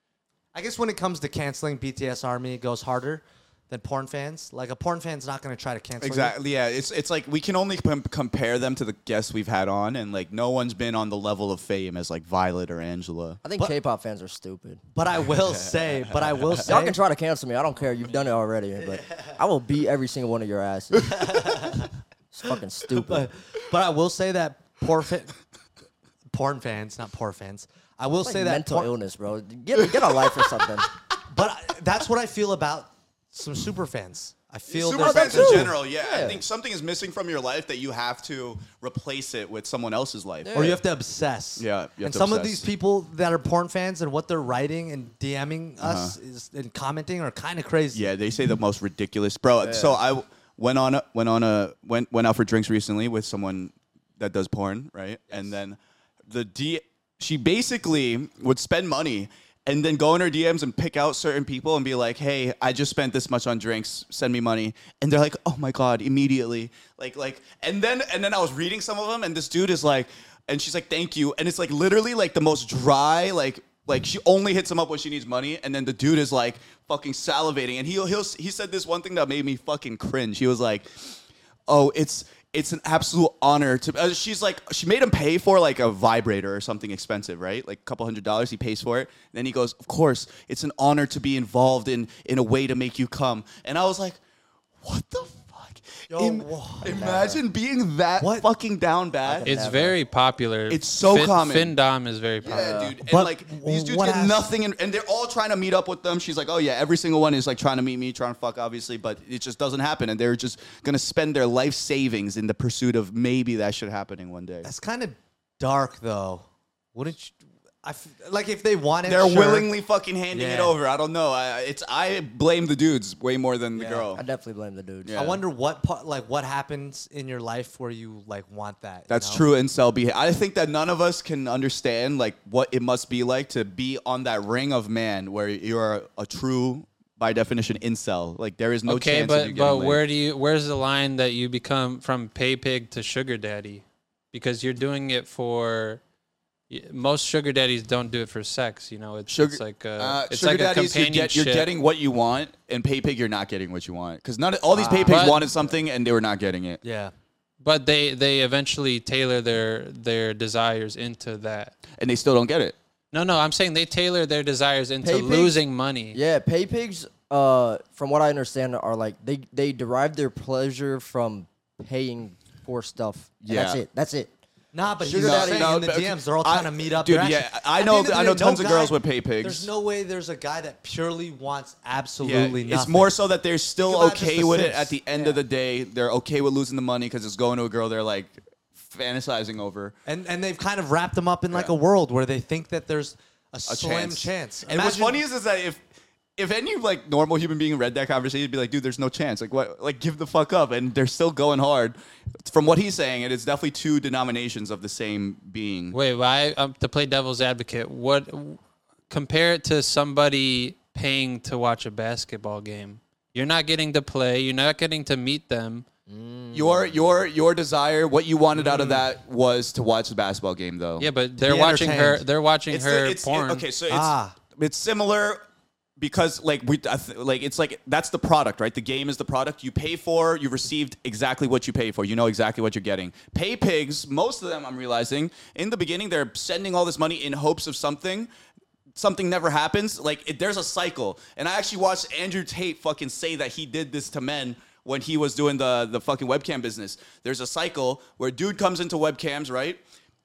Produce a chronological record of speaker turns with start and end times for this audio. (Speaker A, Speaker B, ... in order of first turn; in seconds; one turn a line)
Speaker A: 0.5-6.4
Speaker B: 6.0-13.4
Speaker C: 13.4-14.8
Speaker A: 14.9-17.0
Speaker C: 16.6-21.7
Speaker A: 21.1-21.9
Speaker C: 22.3-23.3
Speaker A: 23.0-25.4
Speaker A: 26.3-28.9
Speaker C: 28.2-30.9
Speaker A: 31.3-35.8
Speaker B: 34.7-40.8
Speaker C: 34.9-36.4
Speaker C: 40.4-40.8
Speaker A: 40.5-48.0
Speaker B: 41.6-42.6
Speaker B: 45.8-46.1
Speaker B: 47.9-94.2
Speaker C: 49.6-50.0
Speaker B: 94.8-99.5
Speaker A: 96.1-97.2
Speaker C: 96.9-97.4
Speaker A: 98.2-98.5
Speaker C: 99.2-100.0
Speaker D: 99.5-102.9
Speaker B: 100.7-101.7
Speaker B: 102.4-114.7
Speaker C: 102.5-103.0
Speaker A: 103.0-104.5
Speaker A: 114.6-119.7
Speaker B: 119.0-124.2
Speaker A: 120.3-120.8
Speaker A: 123.8-124.1
Speaker C: 124.1-125.2
Speaker B: 125.0-125.4
Speaker A: 125.1-129.4
Speaker B: 129.1-140.0
Speaker D: 138.9-146.0
Speaker D: 146.7-151.7
Speaker B: 149.3-156.8
Speaker C: 154.7-155.3
Speaker D: 155.1-155.4
Speaker A: 156.8-157.1
Speaker D: 157.6-161.7
Speaker B: 162.0-162.8
Speaker D: 163.1-166.2
Speaker C: 165.0-165.6
Speaker C: 166.1-174.3
Speaker B: 173.4-173.8
Speaker A: 174.7-183.2
Speaker C: 175.0-175.8
Speaker B: 175.1-179.7
Speaker B: 182.2-189.9
Speaker A: 183.8-185.4
Speaker A: 190.1-195.2
Speaker B: 193.7-195.8
Speaker B: 196.4-206.0
Speaker D: 205.9-215.8
Speaker C: 216.1-216.9
Speaker B: 216.5-221.1
Speaker A: 218.6-219.0
Speaker D: 221.0-223.7
Speaker A: 221.4-222.2
Speaker B: 222.7-225.4
Speaker A: 223.9-224.4
Speaker B: 226.0-238.3
Speaker B: 238.9-249.8